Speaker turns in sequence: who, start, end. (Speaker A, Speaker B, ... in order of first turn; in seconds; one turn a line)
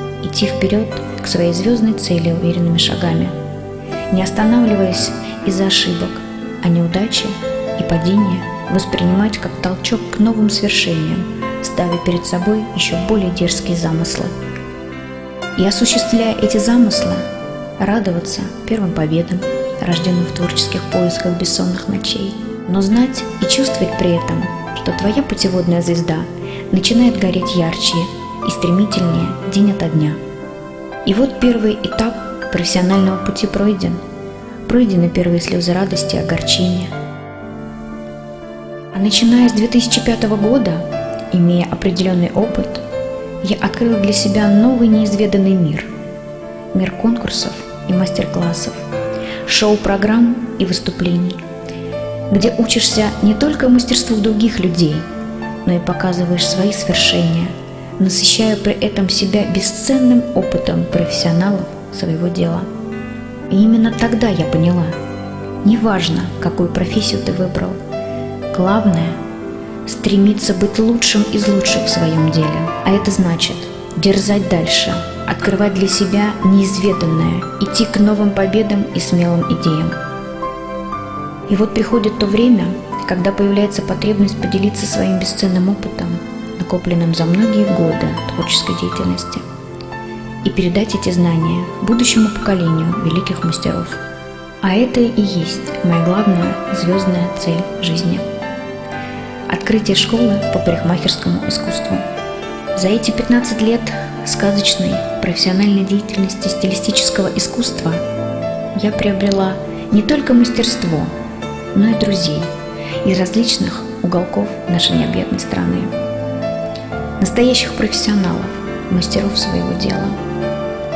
Speaker A: 0.2-3.3
Speaker A: 4.1-14.3
Speaker A: 15.6-17.2
Speaker A: 17.8-30.2
Speaker A: 31.0-34.0
Speaker A: 34.7-36.9
Speaker A: 38.9-42.8
Speaker A: 43.4-45.9
Speaker A: 46.7-48.8
Speaker A: 49.5-51.4
Speaker A: 52.3-55.1
Speaker A: 55.6-62.7
Speaker A: 63.5-64.9
Speaker A: 65.6-67.8
Speaker A: 68.5-69.2
Speaker A: 69.8-80.0
Speaker A: 81.5-89.4
Speaker A: 90.4-94.0
Speaker A: 94.6-98.2
Speaker A: 99.5-102.0
Speaker A: 102.8-108.0
Speaker A: 108.7-111.1
Speaker A: 111.7-112.5
Speaker A: 113.0-115.9
Speaker A: 117.2-120.2